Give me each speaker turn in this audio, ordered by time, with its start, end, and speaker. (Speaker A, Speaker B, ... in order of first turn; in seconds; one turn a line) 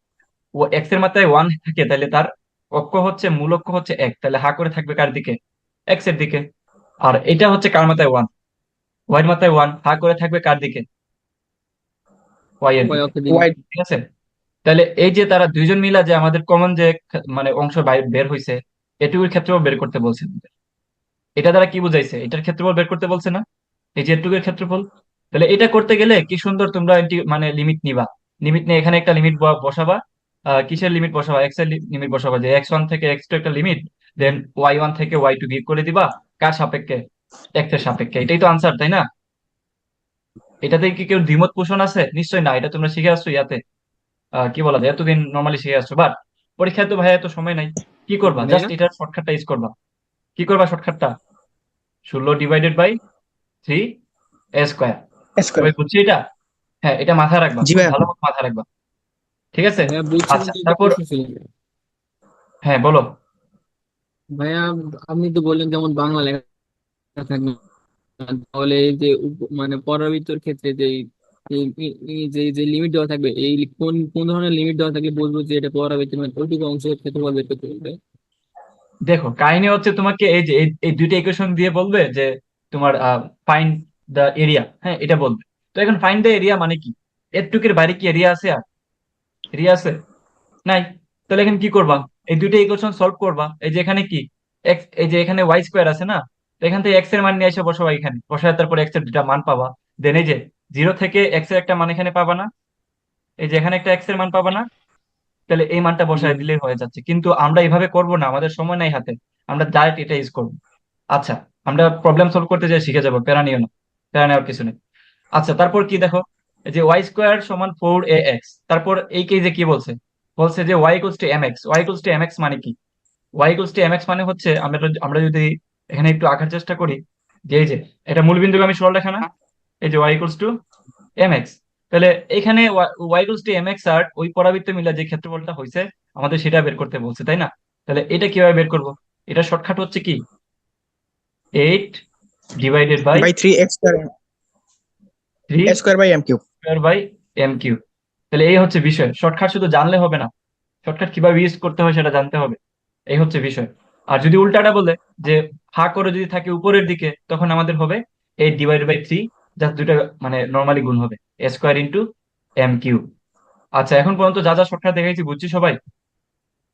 Speaker A: 0.6-5.3
Speaker A: 5.9-6.4
Speaker A: 7.0-8.3
Speaker A: 9.1-10.8
Speaker A: 12.6-13.1
Speaker B: 12.8-13.5
Speaker C: 13.3-13.6
Speaker A: 13.7-14.0
Speaker A: 14.7-20.5
Speaker A: 21.4-23.4
Speaker A: 24.0-30.0
Speaker A: 30.6-37.0
Speaker A: 37.6-39.0
Speaker A: 40.6-43.6
Speaker A: 44.4-49.7
Speaker B: 48.3-48.7
Speaker A: 50.4-51.1
Speaker A: 52.1-53.0
Speaker A: 54.6-55.0
Speaker C: 55.4-55.7
Speaker A: 55.6-56.2
Speaker A: 56.8-58.6
Speaker C: 57.6-58.0
Speaker A: 59.5-61.0
Speaker B: 59.9-61.4
Speaker A: 62.6-63.0
Speaker B: 64.3-66.4
Speaker B: 67.2-67.6
Speaker B: 68.2-78.0
Speaker A: 79.1-88.6
Speaker A: 89.5-89.9
Speaker A: 90.7-102.5
Speaker A: 103.4-104.6
Speaker A: 105.5-110.5
Speaker B: 106.2-106.5
Speaker A: 111.1-114.7
Speaker A: 115.4-122.7
Speaker A: 123.4-127.0
Speaker A: 127.5-129.2
Speaker A: 129.8-130.5
Speaker A: 131.2-140.2
Speaker A: 141.6-142.0
Speaker A: 142.6-143.3
Speaker C: 143.1-144.1
Speaker A: 145.5-145.8
Speaker C: 145.7-146.4
Speaker A: 146.6-147.8
Speaker A: 148.3-150.3
Speaker A: 150.8-152.6
Speaker A: 153.1-162.0
Speaker A: 162.6-163.0
Speaker A: 163.8-165.8